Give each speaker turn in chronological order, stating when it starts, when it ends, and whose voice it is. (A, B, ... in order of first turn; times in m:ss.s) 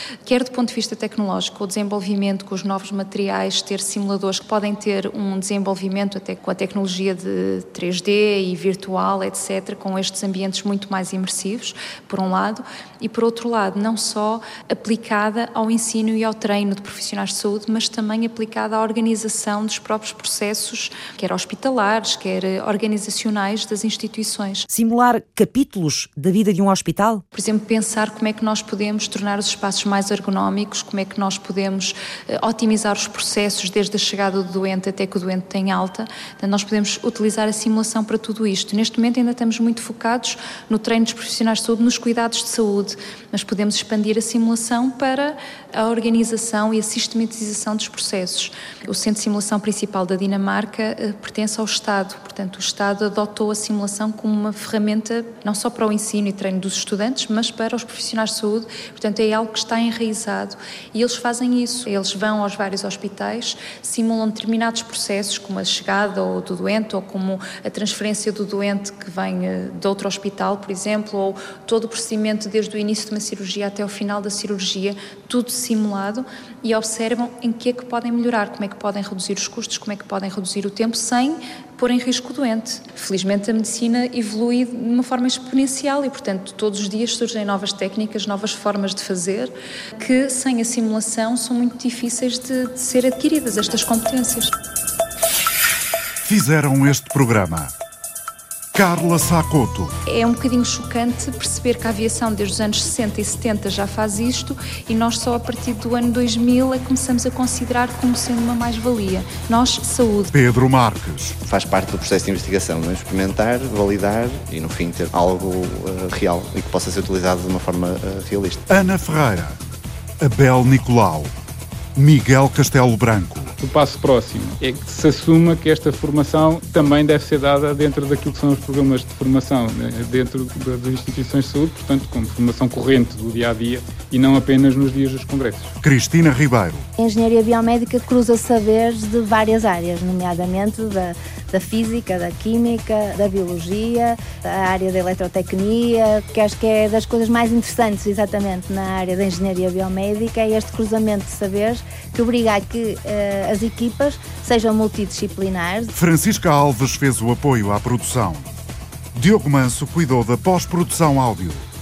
0:00.2-0:24.6 A
0:24.7-0:27.2 B
0:27.3-1:34.5 A
1:36.2-1:37.7 C
1:38.7-1:39.9 C
1:40.0-1:50.3 A
1:50.3-1:51.4 C
1:51.4-1:58.6 D
1:58.7-1:59.6 C
2:00.2-2:01.3 C
2:02.0-2:03.5 C
2:03.6-2:15.7 E
2:15.8-2:16.9 C
2:17.0-2:35.9 F
2:35.9-2:38.5 C
2:39.1-2:41.6 C